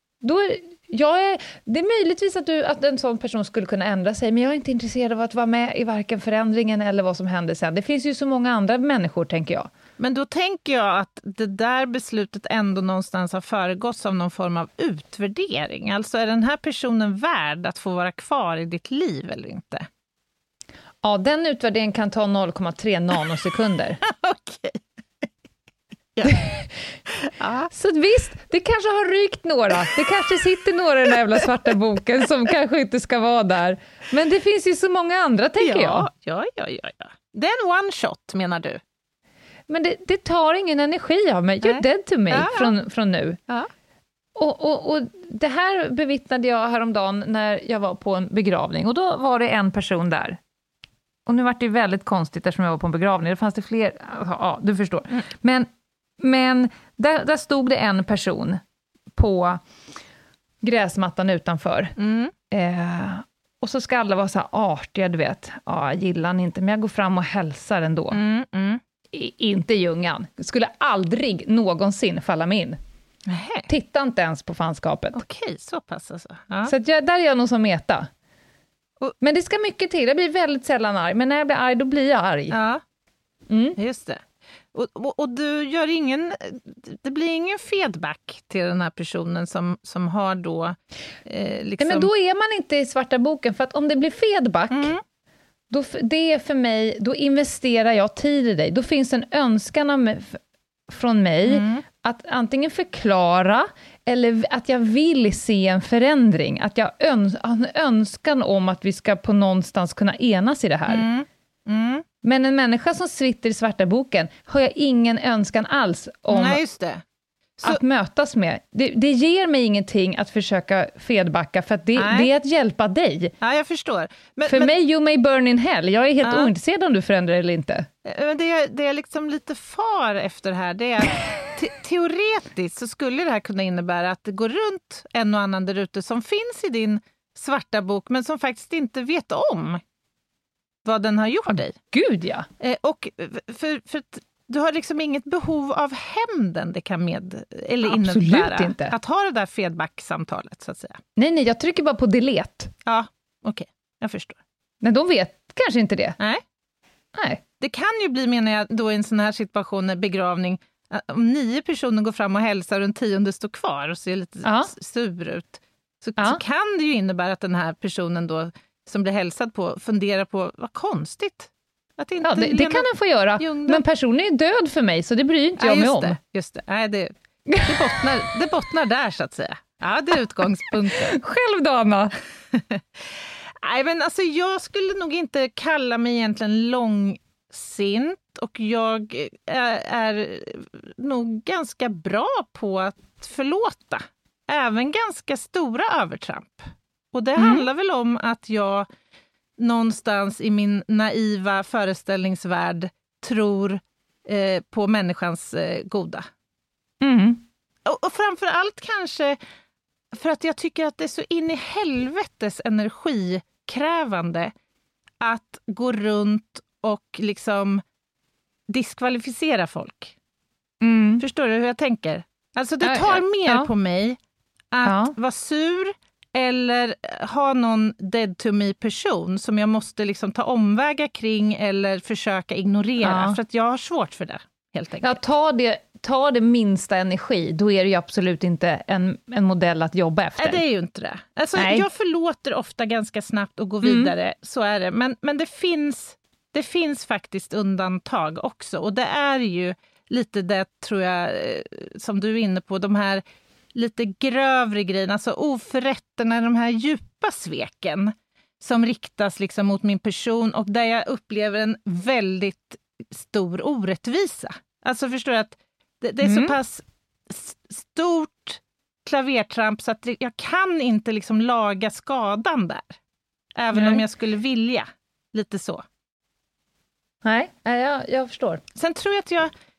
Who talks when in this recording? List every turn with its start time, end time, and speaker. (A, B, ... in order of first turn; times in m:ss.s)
0:00.2-0:09.7 A
0:10.0-0:19.9 B
0:21.0-0:24.0 A
0:24.0-0:24.8 B
0:26.2-0:26.4 B
0:26.3-0:26.7 A
0:27.1-0:27.7 B
0:27.7-0:36.1 A
0:35.6-0:38.8 B
0:39.7-0:43.4 A
0:41.6-0:42.7 B
0:44.4-0:50.4 A
0:51.3-0:55.7 A
0:56.2-0:58.6 A
0:59.2-0:59.6 A
1:00.6-1:02.0 A
1:02.0-1:02.3 B
1:02.5-1:08.2 A
1:08.1-1:08.8 B
1:09.1-1:12.8 A
1:13.3-1:13.7 B
1:13.7-1:15.2 A
1:15.1-1:16.7 B
1:16.7-1:18.1 A
1:19.2-1:22.6 A
1:22.5-1:22.8 B
1:23.5-1:23.8 A
1:23.8-1:24.2 B
1:24.7-1:32.1 B
1:31.8-1:34.9 A
1:34.7-1:35.0 B
1:35.7-1:51.0 A
1:41.5-1:41.8 B
1:50.9-1:52.0 B
1:52.2-1:56.6 A
1:56.3-1:57.0 B
1:57.6-2:03.3 A
2:02.0-2:02.3 B
2:03.4-2:04.7 B
2:04.5-2:07.9 A
2:06.2-2:06.5 B
2:08.0-2:19.8 B
2:20.8-2:21.8 B
2:21.5-2:22.5 A
2:22.6-2:31.0 B
2:27.8-2:28.9 A
2:31.2-2:32.7 A
2:32.9-2:34.4 B
2:34.8-2:36.2 A
2:37.2-2:37.4 A
2:37.6-2:52.9 B
2:44.4-2:44.7 A
2:52.2-2:56.2 A
2:53.4-2:53.8 B
2:55.6-3:01.2 B
2:57.5-2:57.9 A
3:00.7-3:02.2 A
3:02.5-3:18.9 B
3:17.4-3:17.6 A
3:19.6-3:26.3 B
3:27.0-3:27.4 A
3:27.9-3:29.4 B
3:30.1-3:34.5 B
3:35.2-3:37.8 B
3:38.7-3:40.2 B
3:40.8-3:41.2 A
3:41.2-3:44.2 B
3:42.8-3:43.7 A
3:44.7-3:55.2 B
3:44.8-3:45.1 A
3:53.0-3:53.4 A
3:55.0-4:00.6 A
4:00.4-4:13.2 B
4:01.6-4:01.9 A
4:03.8-4:04.1 A
4:13.7-4:33.0 B
4:26.2-4:26.6 A
4:33.6-4:35.8 B
4:33.7-4:34.0 A
4:37.2-4:38.6 A
4:38.8-4:39.5 B